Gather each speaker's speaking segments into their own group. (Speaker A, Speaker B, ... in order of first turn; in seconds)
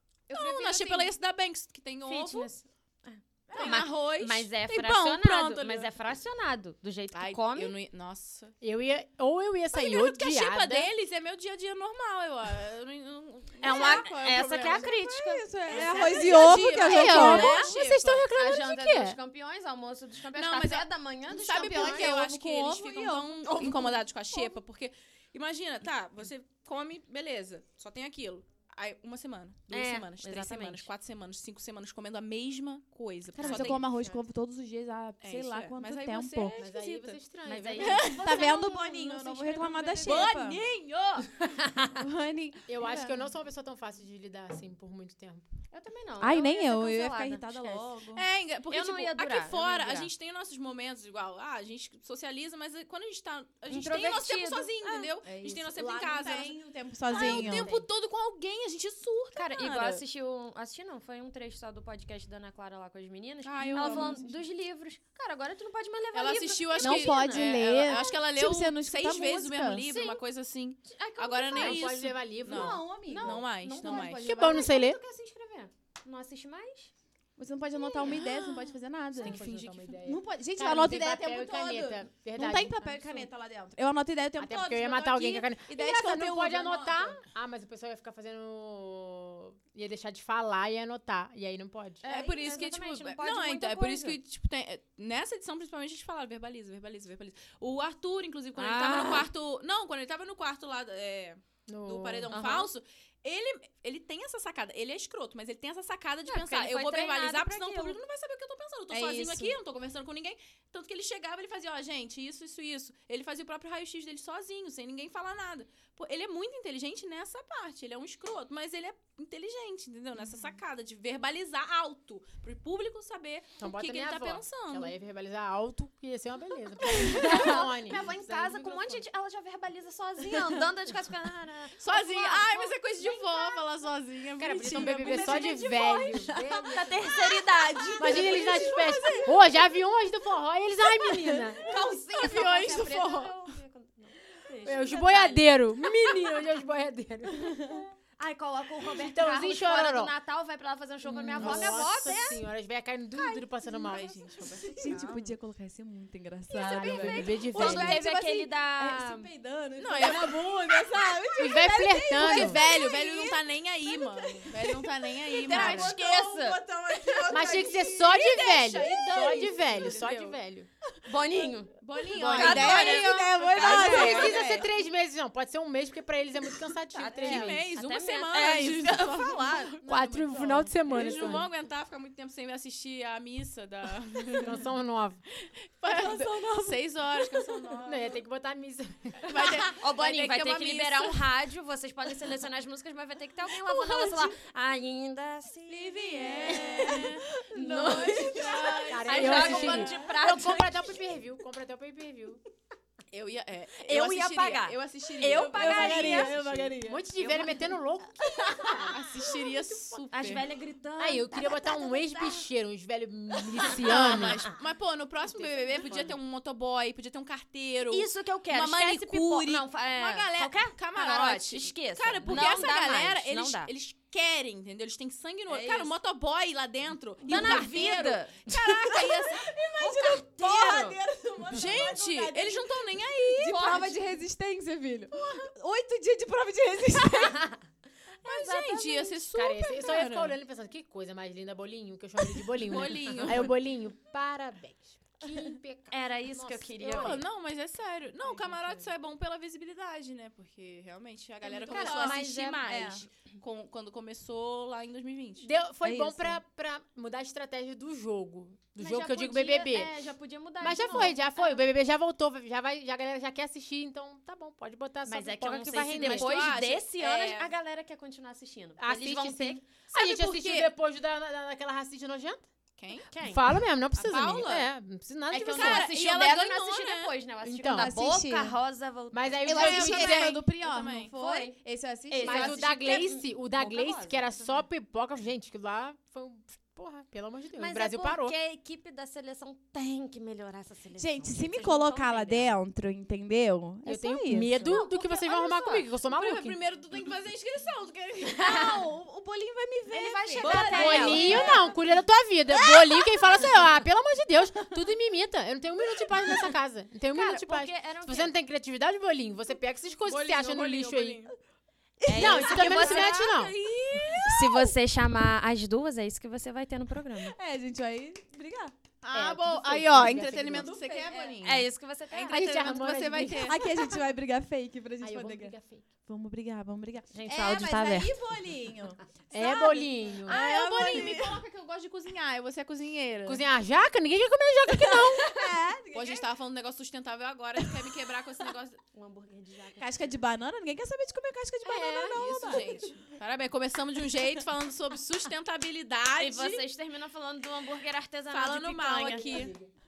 Speaker A: 0.3-2.5, 3.5-5.9, 7.1-8.5, 9.7-14.9, 15.7-18.2, 20.3-33.9, 35.2-37.2, 37.8-38.5, 40.0-41.6, 48.1-60.0, 63.4-64.3, 66.1-74.6, 92.0-124.9, 131.8-136.2, 138.0-139.3, 141.6-143.6, 153.8-155.3, 159.8-161.0, 162.2-166.0, 168.5-170.4, 171.8-174.7, 177.2-184.6, 185.4-188.2, 189.2-191.3, 195.7-200.2, 203.1-207.5, 208.9-210.4, 213.7-229.5, 231.5-233.9, 238.2-240.3, 242.6-243.5, 246.8-255.5, 265.9-267.5, 269.9-270.7, 272.8-273.1, 273.9-274.7, 275.4-277.1, 279.4-281.1, 296.1-298.6, 300.4-301.7, 310.1-311.3, 312.5-314.2, 319.0-323.8, 330.3-333.4, 335.9-338.8, 342.1-346.6, 348.3-349.5
Speaker B: 0.3-1.1, 2.0-7.7, 13.6-16.2, 17.1-22.2, 29.7-30.9, 37.5-40.3, 45.7-47.8, 48.7-50.1, 53.7-55.1, 57.1-57.5, 59.3-68.2, 69.9-70.2, 70.8-72.0, 73.0-76.9, 77.8-78.3, 92.0-94.2, 98.5-99.3, 102.3-102.7, 106.3-108.0, 127.0-133.7, 135.1-138.6, 141.6-146.1, 148.2-152.4, 153.1-154.2, 156.7-159.3, 165.4-166.6, 171.0-174.4, 176.9-179.7, 189.7-201.0, 203.8-206.3, 208.2-208.9, 210.1-212.4, 213.6-214.5, 215.4-216.1, 217.9-223.7, 225.5-225.9, 227.2-231.0, 233.4-234.0, 238.2-239.1, 245.9-247.2, 251.7-253.0, 258.8-261.6, 265.1-269.6, 273.1-273.4, 275.3-279.5, 281.1-281.6, 282.1-284.3, 287.6-292.6, 294.5-295.9, 298.4-298.9, 299.9-301.6, 307.1-308.3, 312.0-313.3, 314.2-317.4, 320.8-322.8, 327.1-328.1, 338.9-340.1, 341.6-342.6, 346.2-349.3
Speaker C: 0.4-0.8, 14.6-17.7, 21.5-24.0, 33.3-36.5, 38.0-40.6, 41.9-43.3, 46.2-48.2, 55.2-57.7, 63.6-64.2, 66.8-69.8, 72.5-73.3, 77.4-87.2, 108.9-109.5, 134.9-139.3, 147.3-147.8, 151.4-151.9, 154.7-170.2, 172.0-174.6, 177.2-177.5, 185.8-187.6, 193.8-194.2, 196.1-198.6, 199.2-199.8, 205.5-207.0, 222.3-222.5, 229.3-237.5, 251.6-253.0, 255.9-256.2, 277.6-278.5, 279.4-282.6, 291.0-294.7, 298.4-301.7, 312.0-313.2, 313.9-314.7, 317.4-318.7, 320.6-321.3, 323.4-331.4, 334.7-336.2, 339.8-342.8
Speaker D: 8.6-10.9, 15.7-19.2, 33.5-34.1, 36.5-38.3, 42.7-45.5, 57.2-57.8, 71.5-72.8, 73.8-75.0, 79.2-83.2, 84.4-92.0, 101.7-102.3, 123.6-129.0, 134.4-137.2, 138.0-141.7, 144.6-147.8, 148.8-150.1, 151.0-154.2, 156.5-158.0, 161.3-162.6, 167.2-170.7, 172.2-172.8, 173.6-177.7, 179.8-181.5, 184.4-185.2, 187.8-189.5, 198.9-202.4, 205.5-209.0, 211.0-214.4, 239.3-247.3, 255.4-259.9, 260.6-266.3, 268.8-272.4, 273.2-275.9, 277.4-277.9, 279.1-280.4, 282.2-288.3, 293.8-296.6, 300.6-311.2, 312.1-313.5, 319.1-320.7, 322.3-323.6, 325.0-325.9, 329.3-330.4, 333.2-335.4, 349.0-349.7